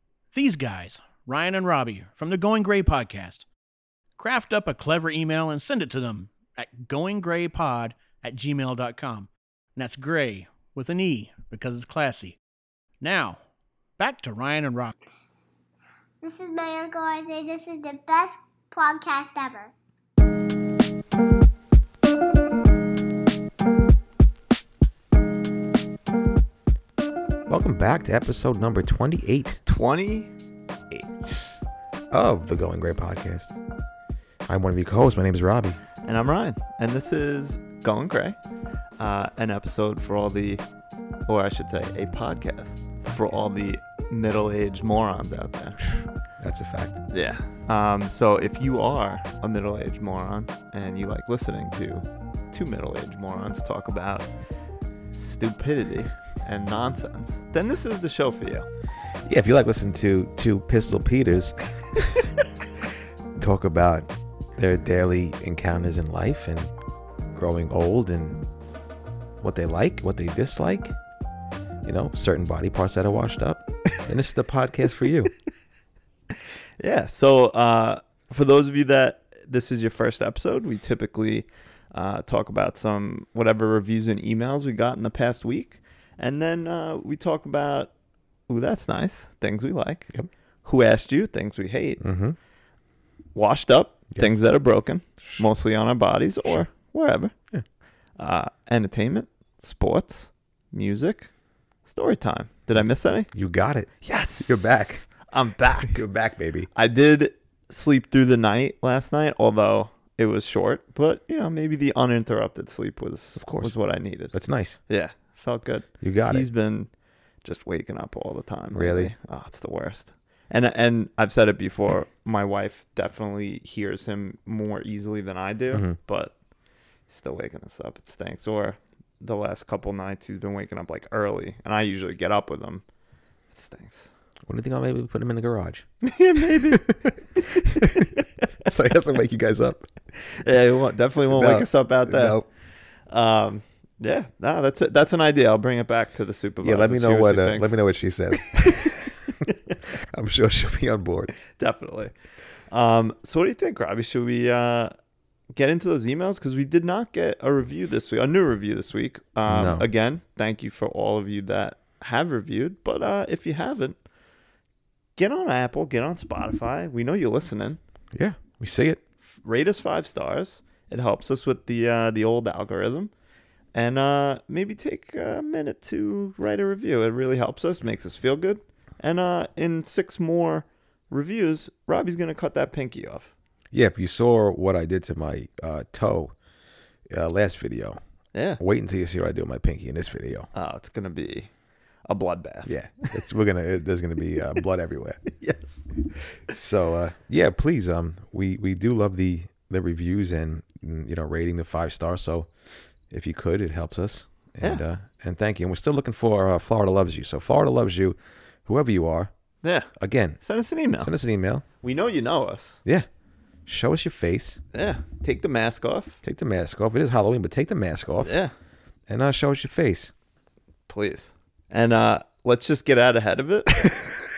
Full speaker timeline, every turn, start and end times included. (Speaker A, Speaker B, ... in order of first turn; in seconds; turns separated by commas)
Speaker A: 0.3-3.4, Speaker A: 4.2-12.4, Speaker A: 13.0-13.4, Speaker A: 14.0-14.9, Speaker B: 16.2-19.7, Speaker C: 27.5-29.6, Speaker D: 29.6-30.3, Speaker C: 30.9-33.5, Speaker C: 34.5-35.8, Speaker D: 36.0-38.4, Speaker D: 39.0-40.6, Speaker D: 41.3-45.8, Speaker C: 46.4-47.0, Speaker D: 47.1-54.3, Speaker D: 55.1-58.6, Speaker C: 59.2-62.2, Speaker C: 63.4-66.7, Speaker C: 67.3-68.4, Speaker C: 69.4-70.9, Speaker C: 71.8-75.3, Speaker D: 76.8-87.9, Speaker D: 88.5-90.1, Speaker D: 90.6-92.0, Speaker C: 92.0-92.3, Speaker D: 93.3-97.3, Speaker C: 94.1-94.4, Speaker D: 98.2-101.3, Speaker D: 101.8-103.3, Speaker C: 103.3-105.0, Speaker D: 104.0-106.0, Speaker C: 105.8-106.7, Speaker D: 106.7-114.3, Speaker C: 113.3-113.7, Speaker C: 114.3-114.8, Speaker D: 114.9-116.9, Speaker C: 116.0-116.5, Speaker D: 117.4-126.3, Speaker C: 118.7-119.1, Speaker C: 125.7-126.0, Speaker D: 127.1-132.8, Speaker D: 133.5-134.1, Speaker C: 134.5-135.9, Speaker D: 136.0-136.8, Speaker C: 136.5-139.9, Speaker D: 140.3-142.4, Speaker C: 141.3-142.5, Speaker D: 143.1-147.8, Speaker C: 146.6-151.3, Speaker D: 151.5-152.1, Speaker D: 152.7-154.9, Speaker D: 155.5-163.9, Speaker C: 159.5-159.8, Speaker D: 165.2-167.8, Speaker C: 168.1-169.0, Speaker D: 169.4-173.1, Speaker D: 173.7-183.3, Speaker C: 183.7-186.3, Speaker C: 187.1-188.0, Speaker D: 188.3-188.6, Speaker C: 188.6-190.5, Speaker D: 190.5-191.5, Speaker D: 192.1-193.1, Speaker C: 192.6-195.2, Speaker D: 195.3-195.9, Speaker C: 196.5-202.5, Speaker C: 203.1-209.3, Speaker D: 209.6-209.9, Speaker C: 210.0-210.4, Speaker D: 210.4-211.1, Speaker C: 211.0-211.6, Speaker D: 211.8-212.8, Speaker C: 213.7-214.6, Speaker D: 214.7-216.2, Speaker C: 216.2-218.3, Speaker D: 218.2-218.5, Speaker C: 219.1-220.1, Speaker D: 220.9-224.0